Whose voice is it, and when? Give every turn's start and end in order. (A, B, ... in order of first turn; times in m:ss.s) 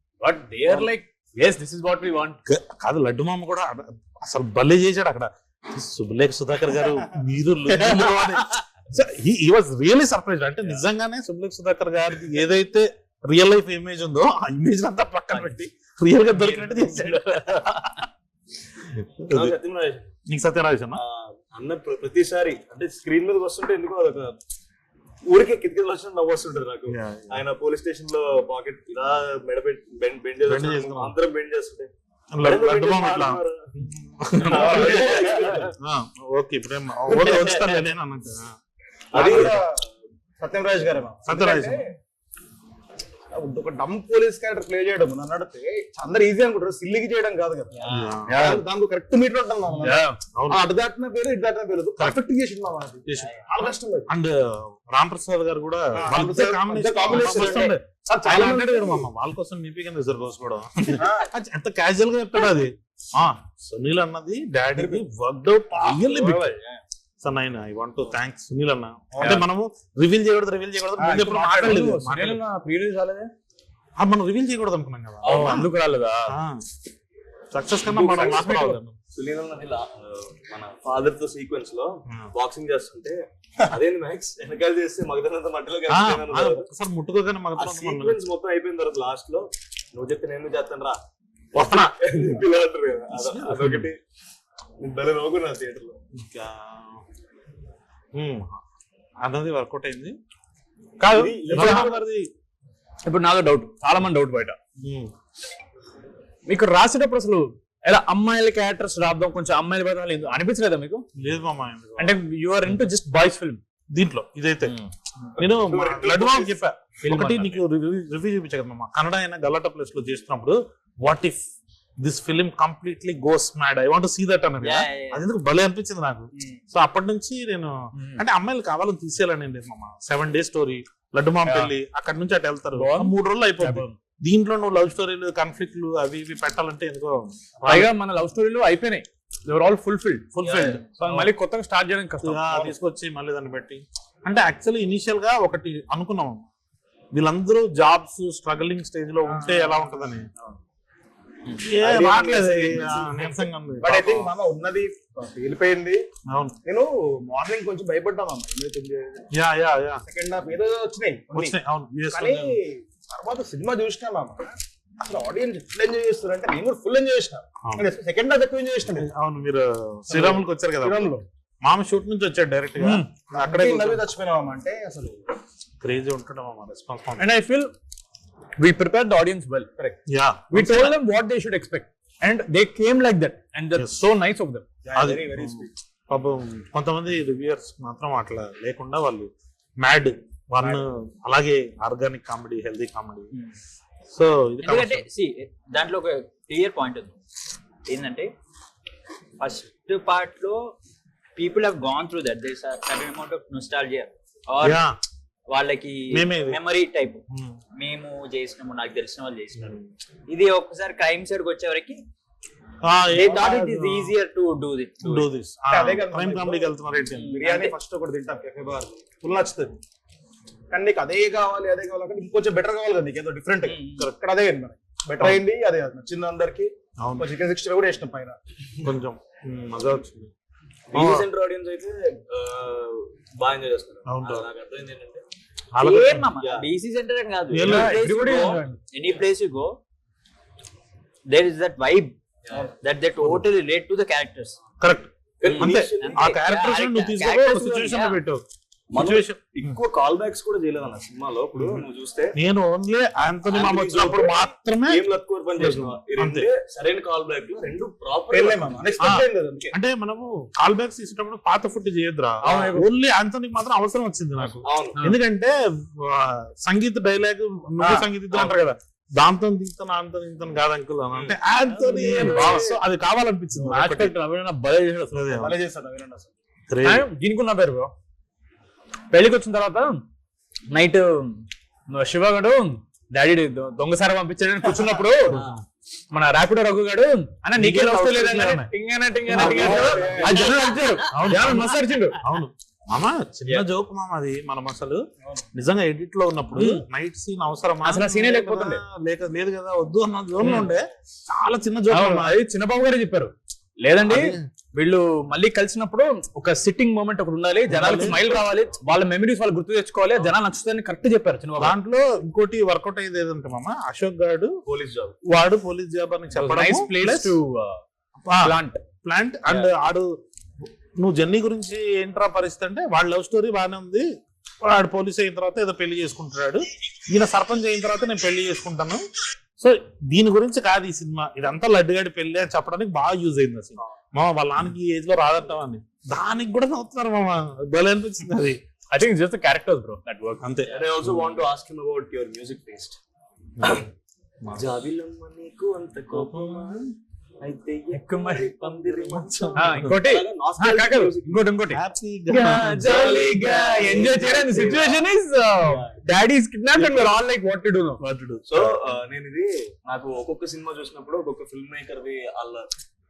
0:00.2-0:02.4 A
0:02.4-0:18.0 B
0:07.9-0:08.2 A
0:16.5-0:17.2 A
0:18.9-0:19.6 B
0:19.3-0:20.1 C
0:20.3-0:21.0 B
0:21.0-0:24.4 C
0:25.3-0:31.9 C
0:26.9-0:27.4 B
0:30.4-0:31.2 B
0:32.3-0:38.5 B
0:32.4-0:33.7 C
0:34.5-0:35.7 C
0:34.6-0:35.2 D
0:37.1-0:37.6 D
0:39.1-0:39.8 D
0:39.2-0:39.6 B
0:39.2-0:39.5 C
0:40.4-0:42.0 D
0:41.2-0:41.8 B
0:43.3-0:47.7 D
0:47.8-0:48.6 A
0:47.9-0:48.6 B
0:48.4-0:54.1 D
0:49.8-0:50.2 A
0:50.3-0:50.6 B
0:53.1-1:06.6 B
0:56.0-0:59.1 D
1:01.0-1:01.3 D
1:05.8-1:06.8 A
1:07.2-1:12.4 B
1:09.2-1:09.4 A
1:11.0-1:13.3 A
1:14.0-1:15.7 B
1:15.2-1:16.4 A
1:16.3-1:16.6 B
1:17.5-1:19.0 B
1:18.0-1:18.4 C
1:18.1-1:18.8 A
1:19.2-1:26.7 C
1:25.9-1:28.2 B
1:27.6-1:31.0 C
1:31.5-1:32.0 B
1:31.7-1:34.0 C
1:33.1-1:33.9 B
1:34.8-1:36.0 C
1:36.2-1:37.0 B
1:38.2-1:38.6 B
1:39.2-1:40.2 B
1:41.0-1:42.3 B
1:41.2-1:42.0 C
1:41.5-1:41.9 A
1:41.6-1:41.8 D
1:43.0-1:44.6 A
1:44.8-1:45.1 B
1:46.5-1:51.1 A
1:51.2-1:52.2 B
1:52.0-1:53.6 A
1:53.9-1:54.8 B
1:54.6-1:54.9 A
1:55.4-1:56.5 C
1:55.4-2:01.5 B
1:57.0-1:57.6 A
2:02.0-2:17.9 B
2:04.6-2:05.2 E
2:06.4-2:06.6 A
2:08.0-2:08.2 A
2:11.4-2:11.7 A
2:12.8-2:14.0 A
2:17.6-2:22.8 A
2:20.4-2:21.3 B
2:22.2-2:26.5 B
2:27.1-2:30.3 B
2:29.3-2:30.1 D
2:31.6-2:34.3 B
2:31.8-2:36.0 D
2:36.3-2:36.6 B
2:36.6-2:39.2 D
2:39.3-2:40.0 B
2:40.0-2:41.6 D
2:41.3-2:42.6 B
2:42.1-2:49.1 D
2:47.6-2:47.9 B
2:48.9-2:54.0 B
2:50.1-2:51.2 D
2:52.8-2:53.1 A
2:53.3-2:55.2 D
2:55.8-2:57.2 B
2:57.2-2:57.7 A
2:58.6-2:59.7 A
3:00.1-3:01.0 B
3:00.5-3:04.7 A
3:03.8-3:04.1 B
3:04.8-3:05.7 D
3:05.0-3:13.3 B
3:14.1-3:15.0 B
3:14.6-3:17.2 E
3:17.9-3:18.3 E
3:19.4-3:20.6 E
3:21.4-3:24.8 E
3:24.6-3:24.9 B
3:25.5-3:27.2 E
3:26.1-3:26.6 B
3:27.3-3:27.6 B
3:27.8-3:32.0 E
3:29.6-3:29.8 B
3:32.9-3:34.1 B
3:33.1-3:35.3 E
3:35.0-3:37.4 B
3:35.7-3:36.7 D
3:37.1-3:37.7 E
3:37.3-3:39.8 D
3:40.7-3:48.4 D
3:47.0-3:47.3 B
3:48.8-3:50.3 B
3:50.9-3:55.2 C
3:50.9-3:51.3 B
3:54.1-3:54.5 B
3:55.7-3:56.3 B
3:55.8-3:59.8 E
3:56.4-3:56.7 C
3:57.5-3:58.0 B
3:57.6-3:58.8 A
4:01.3-4:04.6 E
4:04.8-4:08.4 B
4:05.4-4:06.3 C
4:05.5-4:05.7 A
4:06.0-4:08.2 E
4:08.9-4:12.4 C
4:09.0-4:09.8 B
4:11.6-4:16.5 B
4:13.5-4:19.0 C
4:18.3-4:19.8 D
4:19.0-4:34.2 B
4:22.4-4:22.9 A
4:24.6-4:25.0 C
4:31.2-4:32.8 D
4:31.9-4:32.7 A
4:33.5-4:35.3 A
4:35.1-4:35.6 B
4:35.4-4:36.3 D
4:36.7-4:37.1 B
4:36.8-4:37.9 A
4:39.1-4:40.0 A
4:40.7-4:45.6 A
4:46.1-4:52.2 A
4:47.6-4:48.7 B
4:49.3-4:50.0 B
4:49.3-4:50.7 D
4:50.2-4:50.9 E
4:51.1-4:55.0 B
4:55.5-5:02.4 B
4:56.5-4:56.8 A
4:57.8-4:58.8 A
5:00.4-5:00.7 A
5:01.9-5:11.8 A
5:04.0-5:04.4 B
5:07.7-5:08.3 B
5:11.6-5:14.6 B
5:14.7-5:15.2 C
5:15.3-5:17.4 B
5:16.3-5:17.8 A
5:18.3-5:20.1 B
5:18.4-5:18.8 A
5:19.5-5:19.7 A
5:21.0-5:24.0 B
5:24.6-5:29.0 B
5:29.6-5:38.6 B
5:38.9-5:40.5 A
5:40.4-5:41.3 B
5:40.7-5:43.0 C
5:43.6-5:43.9 B
5:44.4-5:44.7 B
5:44.5-5:46.8 C
5:46.1-5:46.9 B
5:47.4-5:51.6 C
5:47.9-5:48.6 A
5:48.8-5:50.0 B
5:49.6-5:58.0 A
5:51.7-5:53.1 B
5:52.8-5:55.0 C
5:56.8-5:57.1 B
5:58.0-5:58.8 B
5:58.5-6:02.7 C